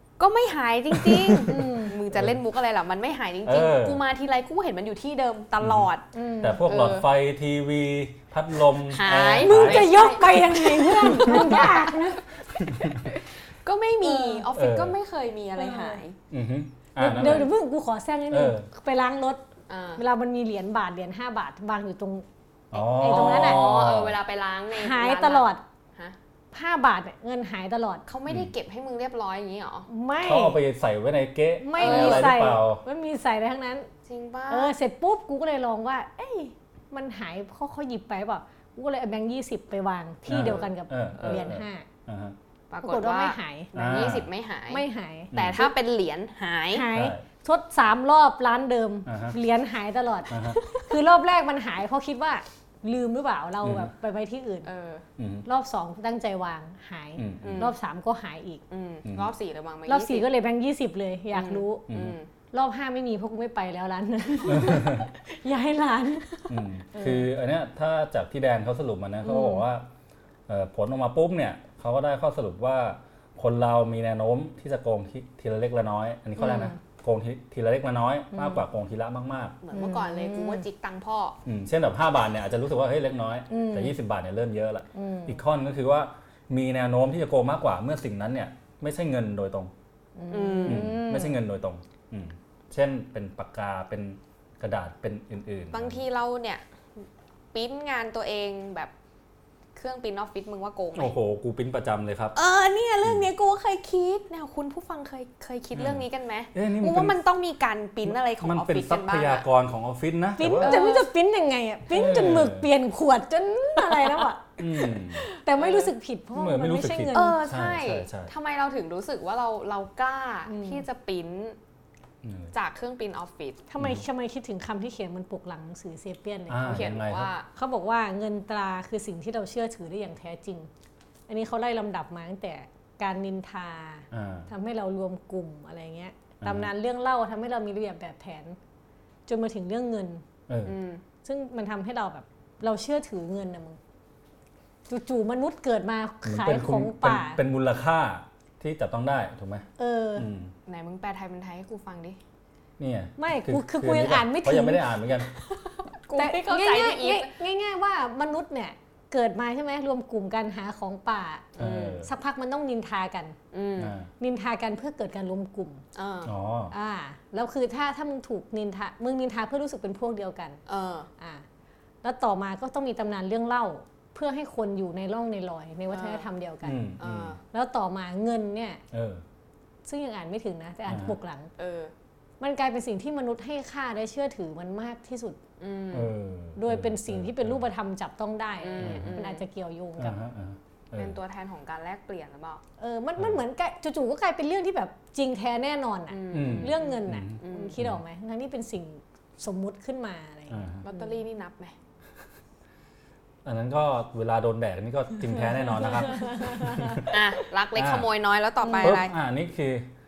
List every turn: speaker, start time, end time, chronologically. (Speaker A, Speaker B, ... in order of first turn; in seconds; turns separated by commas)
Speaker A: 0.2-6.1, Speaker B: 0.9-2.4, Speaker C: 1.4-2.0, Speaker B: 3.4-4.0, Speaker B: 5.6-5.9, Speaker C: 6.1-6.6, Speaker B: 6.4-10.0, Speaker A: 6.6-7.1, Speaker A: 8.9-16.2, Speaker C: 9.4-12.2, Speaker B: 11.0-11.6, Speaker B: 12.6-13.1, Speaker C: 14.0-14.4, Speaker B: 14.5-14.9, Speaker C: 15.6-16.0, Speaker B: 16.3-17.5, Speaker C: 17.0-19.4, Speaker B: 18.3-18.7, Speaker A: 19.7-20.0, Speaker C: 20.0-23.8, Speaker B: 22.7-24.2, Speaker A: 23.0-26.1, Speaker C: 24.7-25.6, Speaker C: 26.5-28.0, Speaker A: 28.1-29.9, Speaker B: 28.3-28.5, Speaker C: 29.9-30.6, Speaker B: 30.2-32.8, Speaker C: 31.6-33.9, Speaker A: 31.8-32.4, Speaker A: 34.0-34.7, Speaker C: 34.5-41.9, Speaker B: 40.3-42.4, Speaker A: 41.2-41.5, Speaker A: 42.7-46.9, Speaker C: 42.8-44.1, Speaker B: 43.7-44.3, Speaker C: 44.7-45.7, Speaker B: 45.3-45.7, Speaker C: 46.7-54.7, Speaker B: 46.9-47.2, Speaker B: 49.0-49.4, Speaker B: 50.3-50.6, Speaker A: 50.6-50.9, Speaker B: 53.6-53.9, Speaker A: 54.6-55.0, Speaker B: 55.2-55.5, Speaker C: 55.4-58.6, Speaker B: 57.2-57.7, Speaker A: 57.4-57.7, Speaker A: 58.7-60.3, Speaker C: 59.9-61.9, Speaker A: 61.3-62.3, Speaker B: 61.9-62.2, Speaker C: 62.5-66.4, Speaker B: 64.5-65.1, Speaker B: 66.5-69.8, Speaker C: 66.9-67.2, Speaker C: 69.2-69.6, Speaker B: 70.5-79.6, Speaker C: 76.4-76.8, Speaker C: 78.3-78.6, Speaker A: 79.6-81.4, Speaker C: 79.7-80.6, Speaker B: 81.4-89.7, Speaker C: 83.5-83.9, Speaker C: 84.9-85.4, Speaker C: 90.2-91.3, Speaker A: 90.3-91.3, Speaker B: 90.7-96.0, Speaker A: 95.7-98.9, Speaker A: 99.7-101.1, Speaker B: 100.9-102.3, Speaker A: 102.3-109.4, Speaker B: 103.0-103.3, Speaker B: 105.7-107.2, Speaker B: 108.0-110.8, Speaker C: 110.4-117.4, Speaker A: 110.6-111.1, Speaker B: 111.9-112.7, Speaker B: 114.6-115.2, Speaker A: 115.6-115.9, Speaker B: 116.3-118.3, Speaker A: 117.1-121.6, Speaker C: 120.5-120.8, Speaker B: 122.2-122.5, Speaker A: 122.5-123.6, Speaker C: 123.7-126.8, Speaker B: 123.8-124.0, Speaker B: 126.5-127.3, Speaker A: 126.6-127.5, Speaker C: 127.5-130.7, Speaker C: 131.3-138.6, Speaker B: 134.1-134.5, Speaker B: 136.4-136.7, Speaker C: 139.3-140.2, Speaker B: 140.5-140.8, Speaker A: 140.6-141.0, Speaker C: 141.2-143.8, Speaker C: 144.9-147.4, Speaker B: 146.2-150.5, Speaker C: 149.8-150.2, Speaker A: 150.7-152.2, Speaker B: 152.8-155.3, Speaker C: 153.2-154.8, Speaker A: 155.5-157.3, Speaker C: 156.1-163.3, Speaker A: 161.6-162.0, Speaker B: 161.6-162.1, Speaker A: 163.5-163.9, Speaker B: 163.8-164.1, Speaker C: 164.2-165.8, Speaker A: 165.9-166.3, Speaker B: 166.2-166.7, Speaker C: 166.7-170.6, Speaker A: 170.7-171.1, Speaker C: 171.2-171.4, Speaker C: 172.0-176.9, Speaker A: 175.9-176.3, Speaker B: 176.6-177.4, Speaker A: 177.0-177.4, Speaker C: 177.5-178.8, Speaker B: 178.9-179.2, Speaker C: 179.8-181.5, Speaker B: 180.9-181.1, Speaker A: 181.6-181.9, Speaker C: 182.4-185.4, Speaker A: 185.6-186.1, Speaker B: 185.9-187.6, Speaker C: 186.6-190.2, Speaker A: 188.6-189.4, Speaker B: 188.8-189.2, Speaker B: 190.0-191.2, Speaker A: 190.9-192.6, Speaker C: 192.8-201.1, Speaker A: 196.1-197.8, Speaker B: 196.3-198.0, Speaker B: 200.5-200.8, Speaker A: 200.8-201.7, Speaker B: 203.4-207.2, Speaker C: 205.4-207.0, Speaker A: 207.1-209.1, Speaker B: 207.7-208.1, Speaker C: 208.6-209.0, Speaker B: 208.8-209.9